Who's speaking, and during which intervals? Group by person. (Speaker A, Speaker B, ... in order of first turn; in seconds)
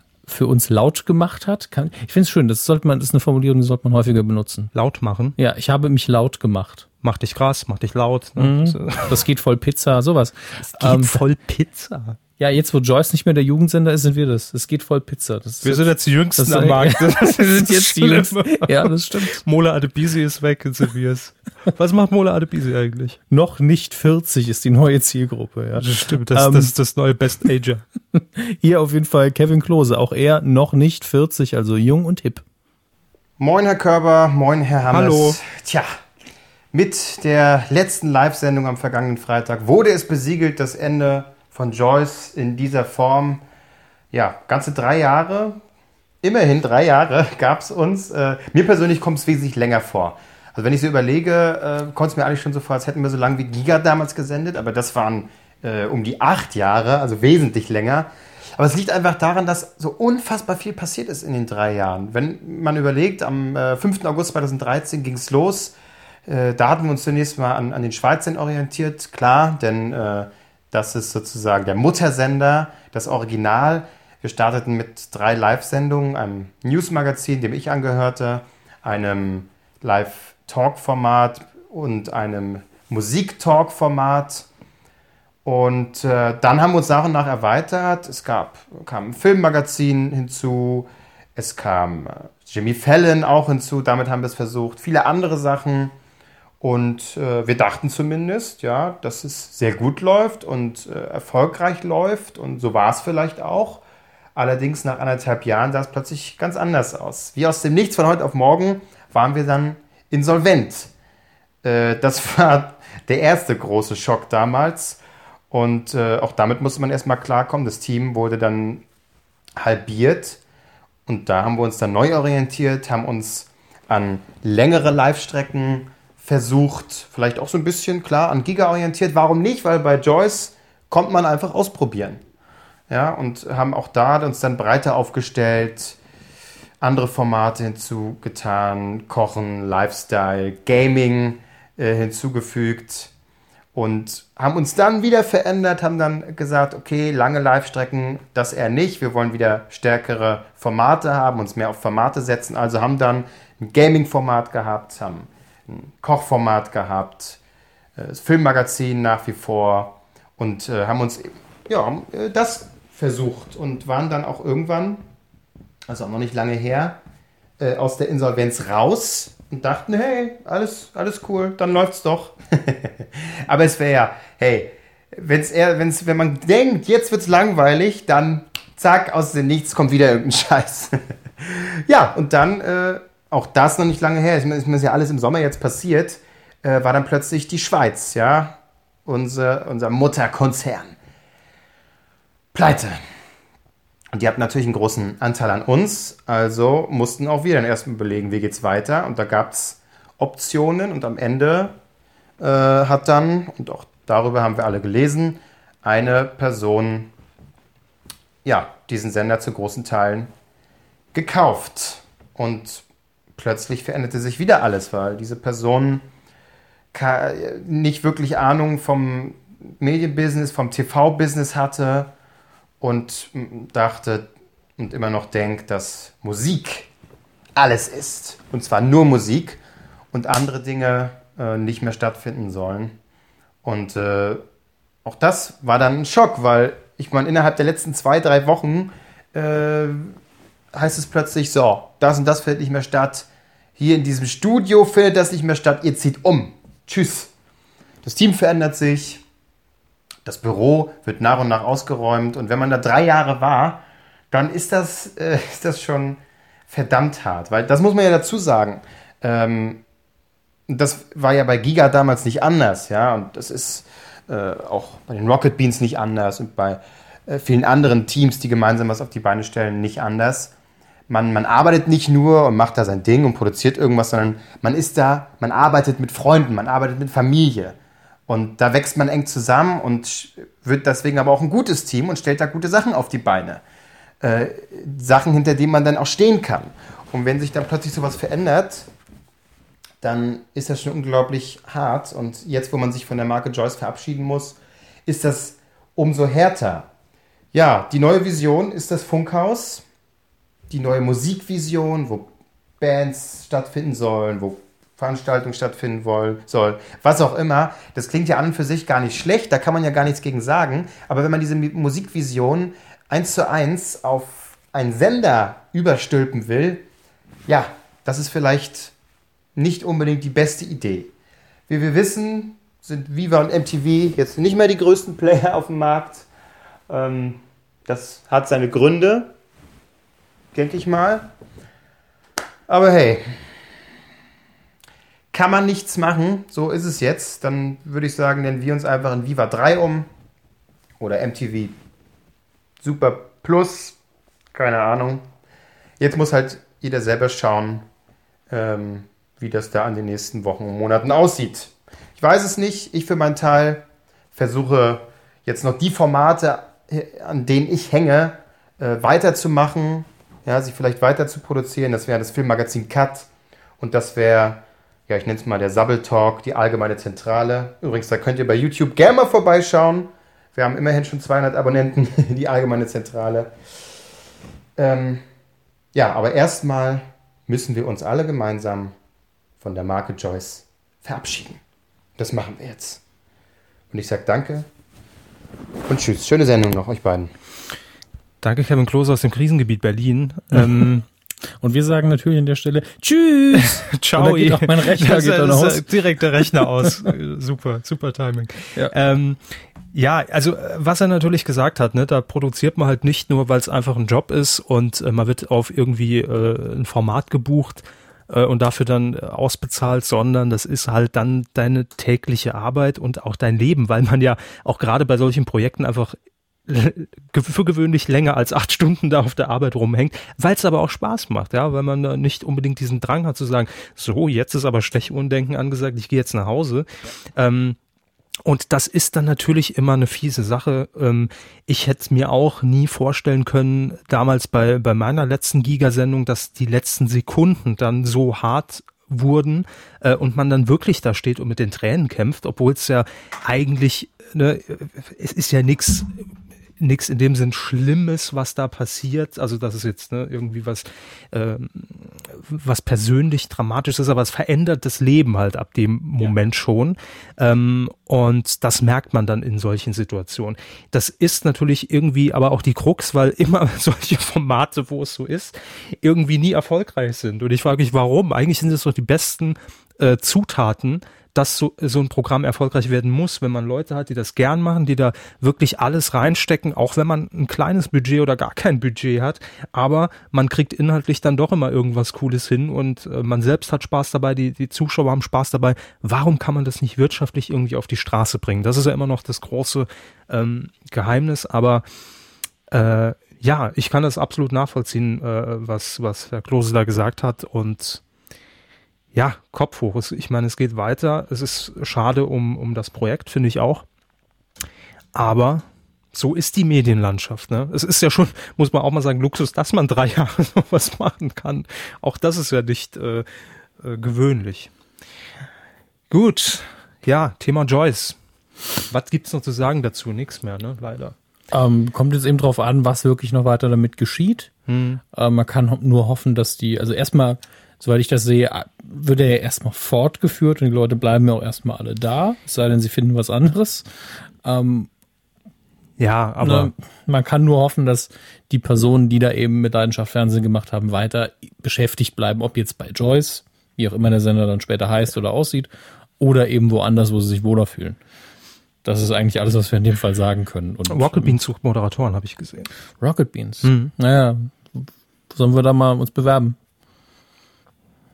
Speaker A: 0.3-4.7, 5.4-6.9, 8.4-11.2, 12.4-19.4, 23.3-26.7, 28.1-32.4, 391.6-395.9, 521.5-524.5, 525.1-533.9, 534.4-534.9, 536.4-548.0, 548.8-551.4, 553.0-556.6
Speaker B: 4.7-5.4, 7.0-9.2, 10.7-12.2, 15.6-23.2, 25.8-27.8, 34.9-35.4, 388.4-391.1, 393.6-399.4, 399.9-416.2, 416.7-427.8, 428.4-446.2, 446.8-491.9, 492.7-498.0, 499.1-503.9, 505.1-513.3, 513.8-514.7, 516.1-518.2, 518.9-521.1, 524.7-525.0, 536.0-536.7, 550.9-552.7, 553.6-553.9
Speaker C: 33.4-35.9, 36.7-43.4, 44.1-45.6, 46.2-65.8, 66.3-84.5, 85.4-95.9, 96.6-103.8, 104.3-110.9, 111.6-118.8, 119.6-120.4, 121.1-132.2, 132.9-136.0, 136.8-143.1, 143.7-157.4, 158.0-165.0, 165.9-167.0, 167.6-190.9, 192.5-193.0, 194.1-201.8, 202.4-207.1, 208.4-210.3, 211.1-212.8, 213.4-216.1, 216.9-222.1, 222.8-226.9, 227.6-229.6, 230.1-232.9, 233.6-234.4, 235.1-240.2, 240.7-243.3, 243.8-247.3, 248.0-249.2, 250.2-259.8, 260.7-270.5, 271.1-277.8, 278.3-283.6, 284.2-288.9, 290.0-296.9, 297.5-299.8, 300.7-302.3, 302.8-316.9, 317.5-318.9, 319.6-321.1, 321.7-326.3, 326.9-329.3, 330.5-331.3, 332.7-333.3, 335.3-340.1, 341.0-341.8, 342.8-344.0, 344.5-345.2, 346.0-347.8, 348.5-363.3, 363.8-373.5, 374.8-375.2, 375.9-378.9, 379.6-381.6, 382.2-383.0, 383.9-384.7, 385.9-387.3